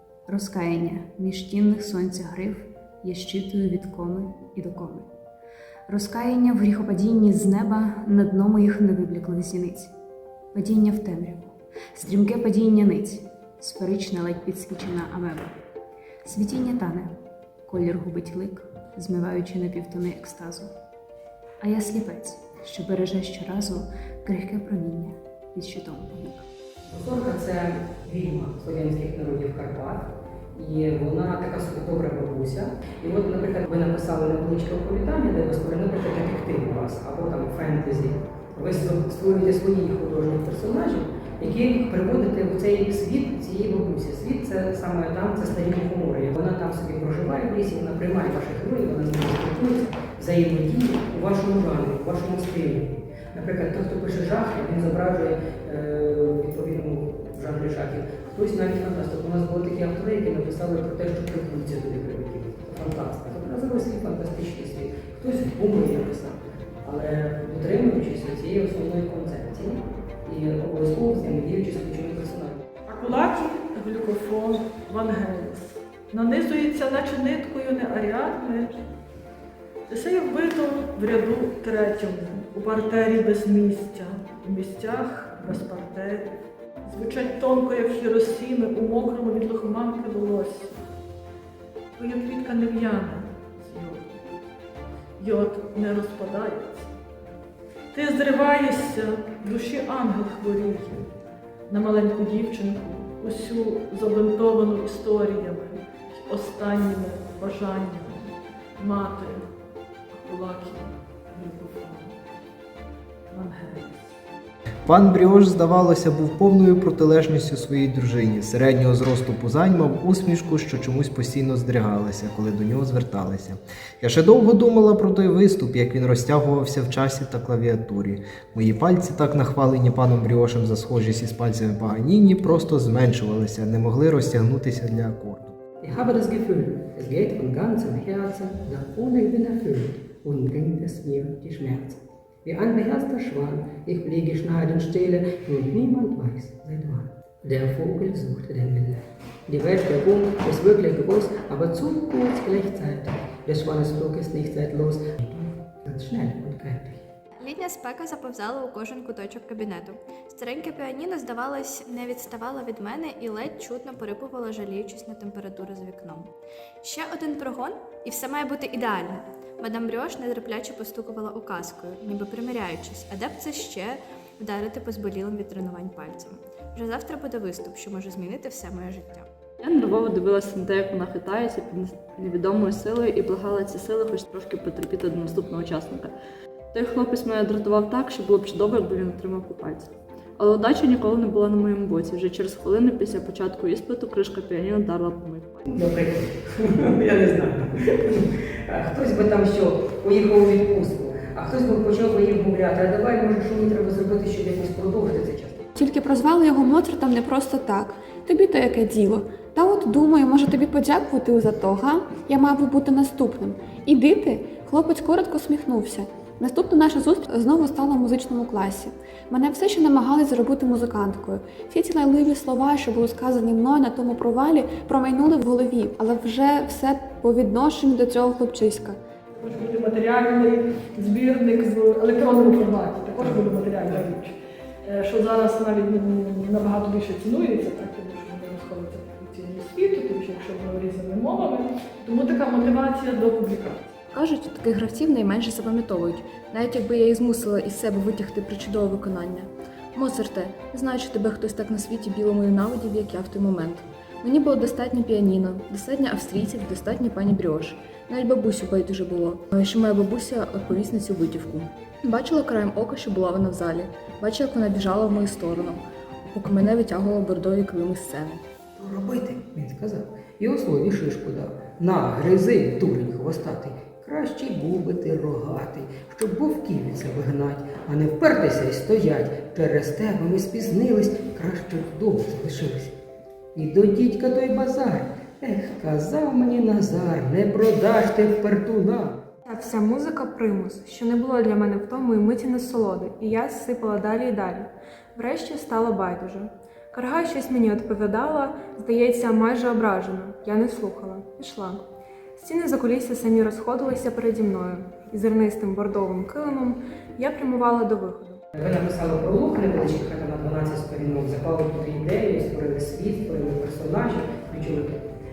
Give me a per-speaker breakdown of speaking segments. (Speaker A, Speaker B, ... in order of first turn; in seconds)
Speaker A: 0.3-5.1, 5.9-9.9, 10.5-15.6, 16.2-17.1, 17.7-20.7, 21.6-26.5
Speaker B: 26.9-72.6, 135.8-157.0, 195.7-205.7, 268.8-282.9, 283.6-289.2, 308.6-315.0
Speaker C: 72.9-78.8, 79.9-86.3, 86.8-90.8, 92.0-94.2, 95.2-96.9, 97.9-101.0, 101.7-109.5, 110.1-112.2, 113.3-114.2, 229.4-234.3, 234.9-243.9
Speaker D: 114.9-135.6
Speaker E: 168.3-169.1, 170.0-172.7, 174.5-175.8, 177.7-179.1
Speaker F: 179.6-186.1, 186.8-195.6
Speaker G: 205.8-229.0
Speaker H: 244.1-268.4
Speaker I: 289.5-301.8, 302.4-308.4